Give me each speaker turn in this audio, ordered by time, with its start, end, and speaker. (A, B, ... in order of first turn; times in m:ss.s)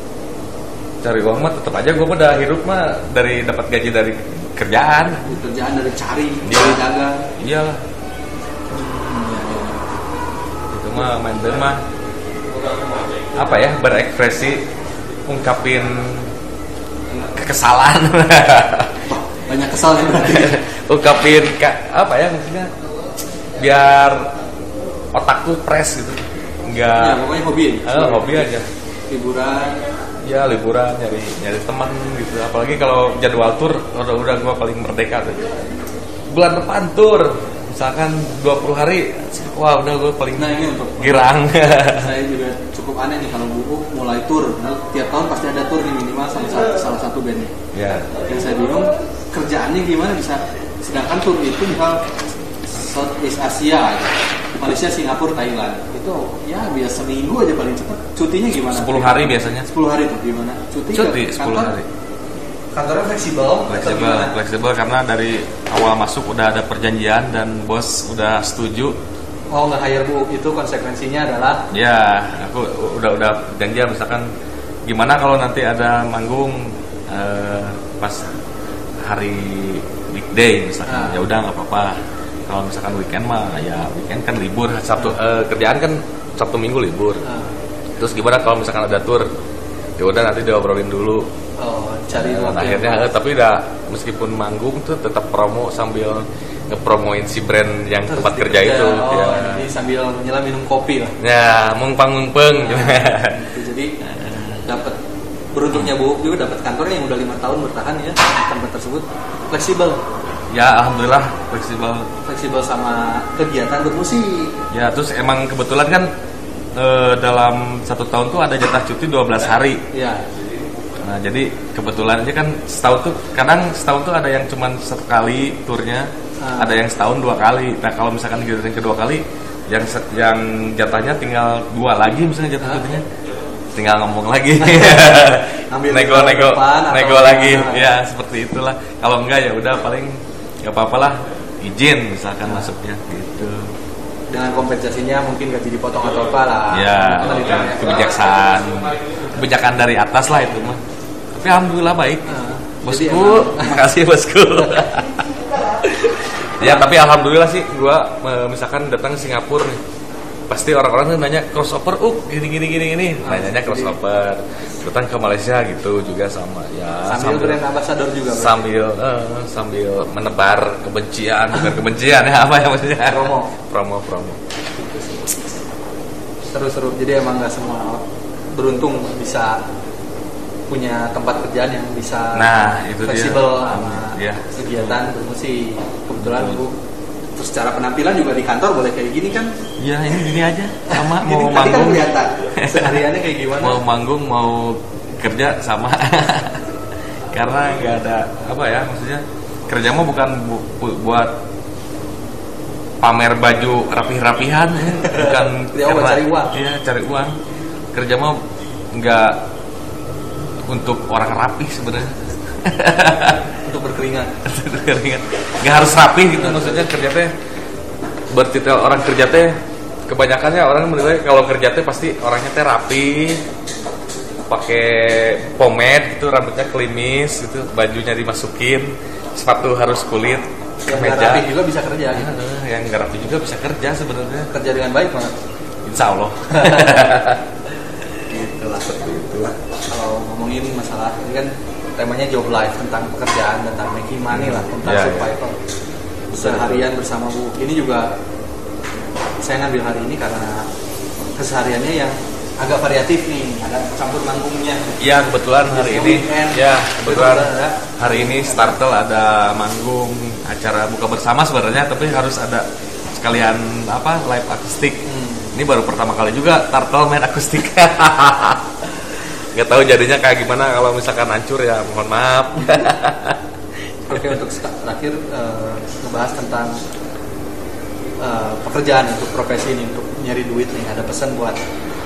0:01.0-0:05.3 A
0:05.2-0:07.2 B
0:06.4-0:06.8 A
0:07.4-0:07.8 A
0:08.7-0:09.9 B
0:10.7-0:11.8 A
0:13.3-0:14.6 A
0:15.3-0:16.3 A
0:17.2-0:19.0 A
0:19.0-0:20.6 B
0:20.1-0:22.7 A
0:23.6-0:24.3 A
0:25.1-0:27.2 A
0:27.0-0:28.5 B
0:27.8-0:28.6 A
0:29.1-0:29.8 B
0:30.2-0:35.4 A
0:36.3-0:42.1 A
0:40.3-0:47.5 B
0:47.7-0:48.1 A
0:48.1-0:52.0 B
0:52.7-1:01.7 B
0:58.6-0:59.7 A
1:00.9-1:01.9 A
1:02.7-1:04.3 B
1:03.6-1:09.0 A
1:09.5-1:11.7 B
1:11.7-1:14.3 A
1:14.9-1:18.3 A
1:19.0-1:27.2 A
1:20.8-1:21.2 B
1:27.2-1:27.6 B
1:28.0-1:29.3 A
1:30.0-1:31.3 A
1:31.6-1:33.1 B
1:32.1-1:39.7 A
1:38.0-1:41.2 B
1:41.2-1:43.4 A
1:42.6-1:44.0 B
1:44.0-1:44.6 A
1:44.6-1:45.0 B
1:45.5-1:50.0 B
1:50.5-1:52.1 A
1:52.2-1:54.5 B
1:54.7-1:56.1 A
1:56.8-1:59.8 A
1:59.9-2:00.2 B
2:01.0-2:13.0 A
2:06.4-2:06.8 B
2:13.7-2:23.7 A
2:14.6-2:17.9 B
2:24.3-2:27.9 B
2:26.7-2:30.8 A
2:31.3-2:32.2 A
2:32.2-2:33.8 B
2:32.8-2:39.8 A
2:36.6-2:36.9 B
2:40.5-2:47.6 A
2:43.2-2:44.0 B
2:47.0-2:48.7 B
2:48.3-2:54.4 A
2:53.0-2:53.5 B
2:54.8-2:55.6 B
2:56.5-2:58.0 B
2:58.5-2:59.6 B
3:00.7-3:06.8 B
3:02.3-3:05.0 A
3:06.2-3:06.6 A
3:07.4-3:09.5 B
3:09.8-3:13.0 A
3:10.9-3:13.8 B
3:13.6-3:16.7 A
3:17.3-3:21.4 A
3:23.0-3:27.3 A
3:24.9-3:26.5 B
3:27.9-3:28.4 A
3:28.9-3:29.4 A
3:30.6-3:33.5 A
3:33.6-3:34.3 B
3:34.4-3:37.3 A
3:36.3-3:36.9 B
3:38.3-3:39.5 A
3:40.1-3:43.4 A
3:44.5-3:51.5 A
3:50.8-3:52.3 B
3:52.1-3:54.5 A
3:54.5-3:55.3 B
3:55.8-3:59.6 A
3:56.5-3:57.0 B
3:59.9-4:05.6 B
4:04.3-4:05.3 A
4:06.3-4:06.9 A
4:06.3-4:08.1 B
4:09.4-4:10.7 B
4:11.4-4:15.0 B
4:15.0-4:33.4 A
4:15.6-4:18.8 B
4:25.0-4:25.5 B
4:34.1-4:36.7 B
4:38.2-4:41.6 B